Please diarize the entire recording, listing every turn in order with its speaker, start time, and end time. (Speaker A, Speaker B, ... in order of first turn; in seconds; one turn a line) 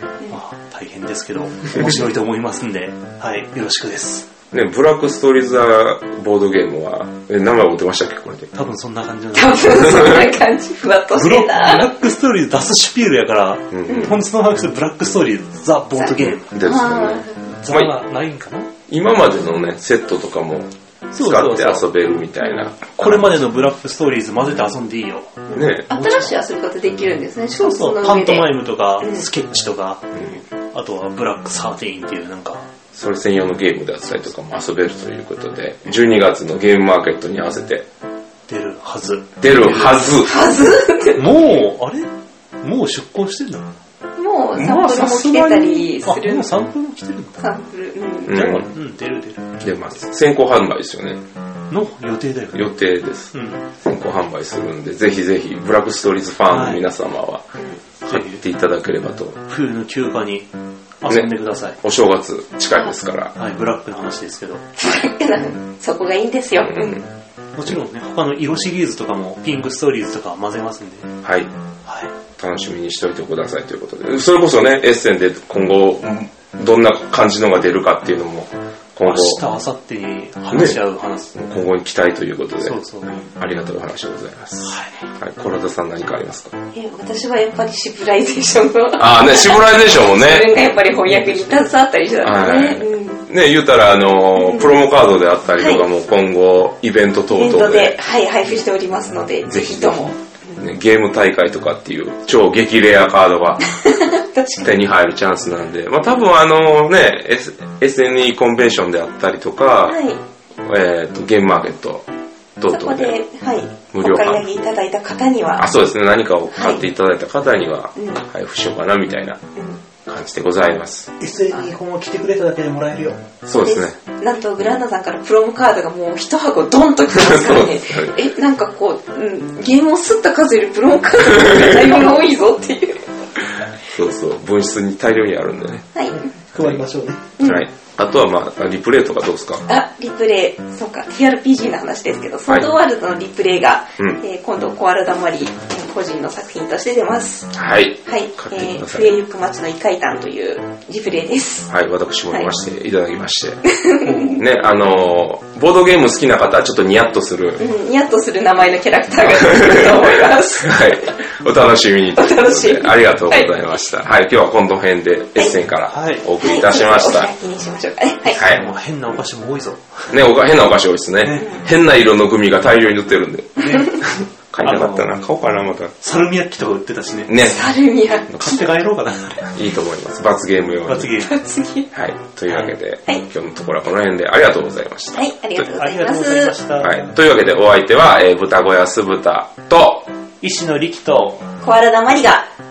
Speaker A: 0.3-4.3
Speaker B: 4.5-8.5
Speaker A: 8.5-10.3
Speaker C: 9.3-11.9
Speaker A: 11.1-16.5
Speaker B: 13.7-14.2
Speaker C: 13.9-14.1
Speaker C: 15.9-17.5
Speaker B: 16.5-17.9
Speaker A: 17.5-18.7
Speaker B: 18.9-23.3
Speaker A: 21.1-21.9
Speaker A: 22.9-26.3
Speaker B: 25.5-25.9
Speaker C: 25.9-28.5
Speaker A: 27.6-30.1
Speaker C: 29.0-29.2
Speaker B: 30.1-30.4
Speaker A: 30.7-32.6
Speaker B: 32.9-37.9
Speaker A: 38.5-40.4
Speaker B: 39.4-40.3
Speaker C: 40.2-41.3
Speaker A: 41.1-42.1
Speaker A: 42.6-43.7
Speaker C: 44.2-46.5
Speaker B: 44.5-45.9
Speaker A: 45.9-47.5
Speaker C: 47.4-48.3
Speaker B: 48.3-48.7
Speaker A: 48.3-49.6
Speaker B: 49.6-51.2
Speaker A: 51.7-52.7
Speaker B: 52.5-57.5
Speaker A: 53.3-53.6
Speaker A: 56.5-56.8
Speaker B: 58.0-59.4
Speaker A: 58.1-58.4
Speaker A: 59.5-60.5
Speaker A: 61.0-61.8
Speaker B: 61.1-63.3
Speaker A: 63.4-64.6
Speaker C: 64.8-67.0
Speaker B: 66.6-67.0
Speaker A: 67.5-71.1
Speaker B: 71.2-71.5
Speaker B: 72.4-79.4
Speaker A: 79.0-81.4
Speaker B: 80.5-80.8
Speaker B: 81.3-86.5
Speaker A: 82.6-83.2
Speaker A: 84.6-85.0
Speaker C: 86.7-93.2
Speaker B: 89.0-90.5
Speaker A: 91.1-91.5
Speaker B: 92.2-98.0
Speaker C: 94.3-94.7
Speaker C: 95.6-95.8
Speaker C: 97.3-100.6
Speaker B: 99.5-103.6
Speaker C: 104.1-104.7
Speaker B: 104.6-110.0
Speaker C: 109.8-110.2
Speaker B: 110.6-112.0
Speaker B: 112.6-113.2
Speaker C: 112.7-115.7
Speaker B: 113.9-114.5
Speaker B: 115.6-119.4
Speaker C: 116.5-116.8
Speaker C: 117.9-118.2
Speaker B: 120.1-121.1
Speaker A: 121.2-123.2
Speaker B: 123.4-124.0
Speaker C: 123.6-133.0
Speaker B: 127.1-128.2
Speaker B: 133.9-135.9
Speaker C: 135.9-136.2
Speaker A: 136.1-137.3
Speaker B: 136.6-136.8
Speaker C: 137.4-137.6
Speaker B: 137.4-139.6
Speaker C: 139.7-147.5
Speaker B: 147.5-149.1
Speaker C: 148.1-151.7
Speaker B: 151.7-153.6
Speaker C: 153.7-154.4
Speaker A: 154.1-154.4
Speaker B: 154.4-157.6
Speaker C: 157.6-160.9
Speaker B: 159.4-160.1
Speaker B: 160.6-167.3
Speaker C: 162.1-163.5
Speaker A: 165.9-166.2
Speaker C: 166.4-168.4
Speaker B: 168.3-168.6
Speaker A: 168.3-170.0
Speaker B: 170.1-175.9
Speaker A: 171.2-171.6
Speaker A: 173.6-173.9
Speaker A: 174.6-175.1
Speaker A: 176.0-177.7
Speaker B: 177.3-177.6
Speaker C: 177.4-178.3
Speaker A: 178.3-179.5
Speaker B: 179.4-181.1
Speaker A: 180.8-181.3
Speaker C: 181.2-181.9
Speaker B: 181.9-185.2
Speaker A: 182.5-182.7
Speaker C: 185.1-186.5
Speaker A: 185.6-187.2
Speaker B: 186.8-190.1
Speaker A: 190.4-191.4
Speaker C: 191.6-192.5